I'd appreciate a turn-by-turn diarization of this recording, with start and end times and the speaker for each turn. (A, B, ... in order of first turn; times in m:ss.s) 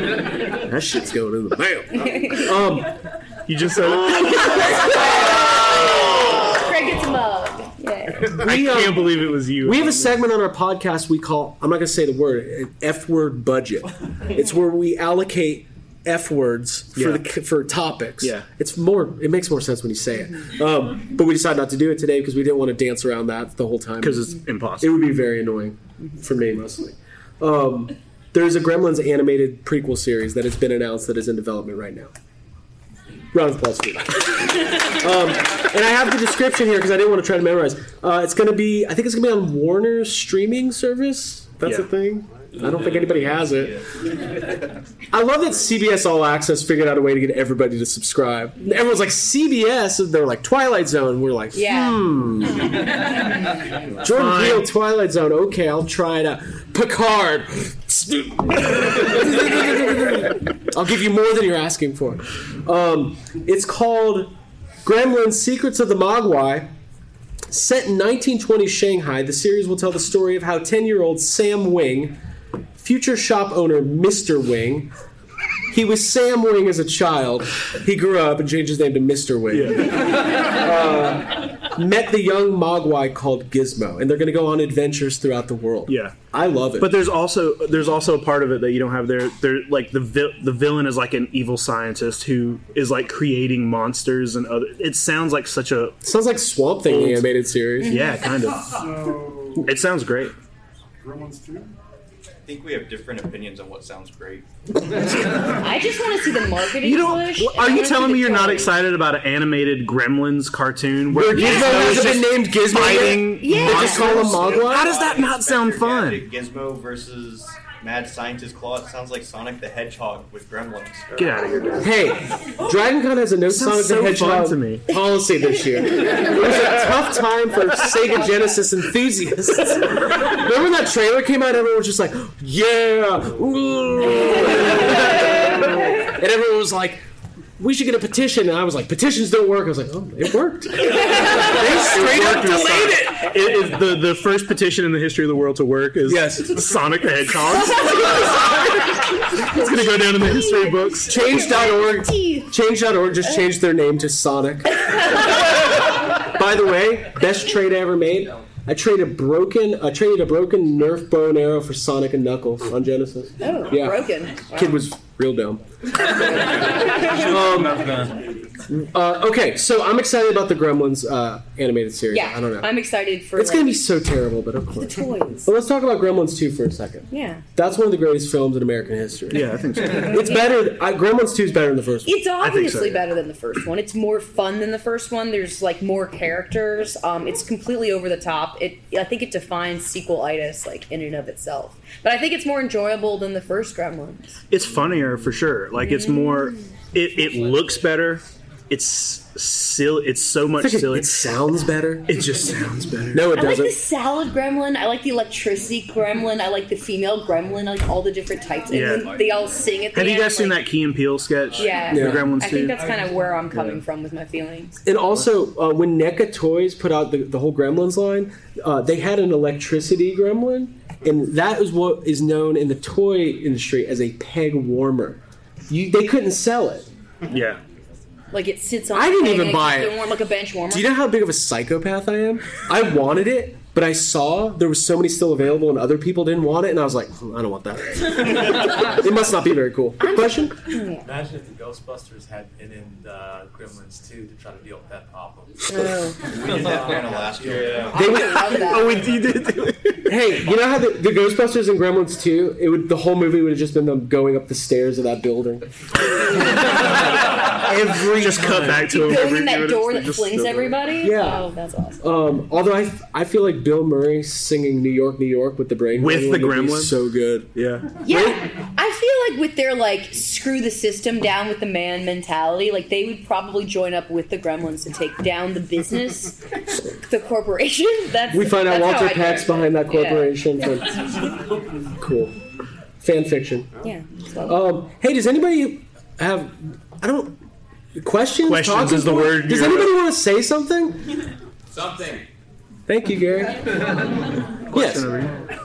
0:00.5-0:03.0 A
0:03.5-0:05.0 B
0:05.3-0:08.4 C
0:08.2-0:32.1 A
0:08.3-0:10.2 B
0:17.0-0:17.2 B
0:18.2-0:18.4 B
0:24.0-0:25.1 B
0:33.3-0:43.8 A
0:45.1-0:52.8 A
0:51.5-0:52.0 C
0:54.0-1:04.3 A
0:54.1-0:54.7 B
1:04.8-1:06.7 A
1:07.5-1:12.2 A
1:12.8-1:14.9 A
1:15.7-1:26.9 A
1:19.5-1:20.0 B
1:25.9-1:26.3 B
1:26.8-1:36.0 B
1:36.0-1:38.0 A
1:36.9-1:37.3 B
1:37.8-1:38.3 C
1:37.9-1:39.0 B
1:39.6-1:40.3 B
1:41.1-1:41.6 D
1:42.4-1:44.4 E
1:45.6-1:48.7 C
1:46.8-1:56.3 B
1:51.1-1:54.9 A
1:52.8-1:54.3 C
1:54.2-2:01.4 E
2:01.2-2:01.9 B
2:01.8-2:17.0 A
2:03.5-2:04.8 B
2:17.6-2:23.3 A
2:21.2-2:31.5 B
2:26.0-2:26.6 A
2:30.2-2:30.9 C
2:31.0-2:35.4 A
2:31.6-2:32.4 C
2:36.1-2:45.6 A
2:43.4-2:44.8 C
2:47.2-2:47.9 A
2:48.7-2:52.7 A
2:52.1-2:53.8 C
2:53.3-3:02.2 A
2:54.8-2:55.5 C
2:57.1-2:57.4 C
2:59.3-3:00.2 B
3:00.0-3:00.5 C
3:02.0-3:14.4 C
3:02.4-3:03.1 B
3:14.5-3:21.3 B
3:15.8-3:16.7 C
3:20.6-3:22.2 A
3:22.1-3:23.3 B
3:23.1-3:23.8 A
3:23.3-3:30.7 C
3:28.7-3:29.2 B
3:29.9-3:32.8 B
3:31.5-3:34.8 C
3:31.9-3:32.4 A
3:32.7-3:33.0 D
3:34.8-3:46.9 A
3:47.3-3:47.6 B
3:48.3-3:50.9 C
3:48.9-3:50.0 A
3:50.7-4:00.6 A
4:00.0-4:01.1 C
4:01.0-4:05.7 D
4:05.7-4:06.2 C
4:06.2-4:08.0 E
4:06.3-4:08.1 D
4:07.9-4:08.8 A
4:07.9-4:09.1 C
4:08.6-4:10.0 B
4:10.0-4:15.7 A
4:16.3-4:16.6 A
4:17.6-4:19.0 A
4:18.0-4:20.8 B
4:18.9-4:22.0 C
4:21.0-4:21.5 A
4:22.0-4:28.4 A
4:26.0-4:27.0 B
4:27.6-4:27.9 B
4:28.0-4:40.4 C
4:38.3-4:41.1 A
4:41.9-4:42.4 A
4:43.0-4:43.8 A
4:43.8-4:44.6 C
4:44.4-4:47.4 A
4:48.0-4:51.1 A
4:48.4-4:50.0 B
4:52.9-4:53.8 A
4:54.7-4:55.1 A
4:54.7-4:55.3 B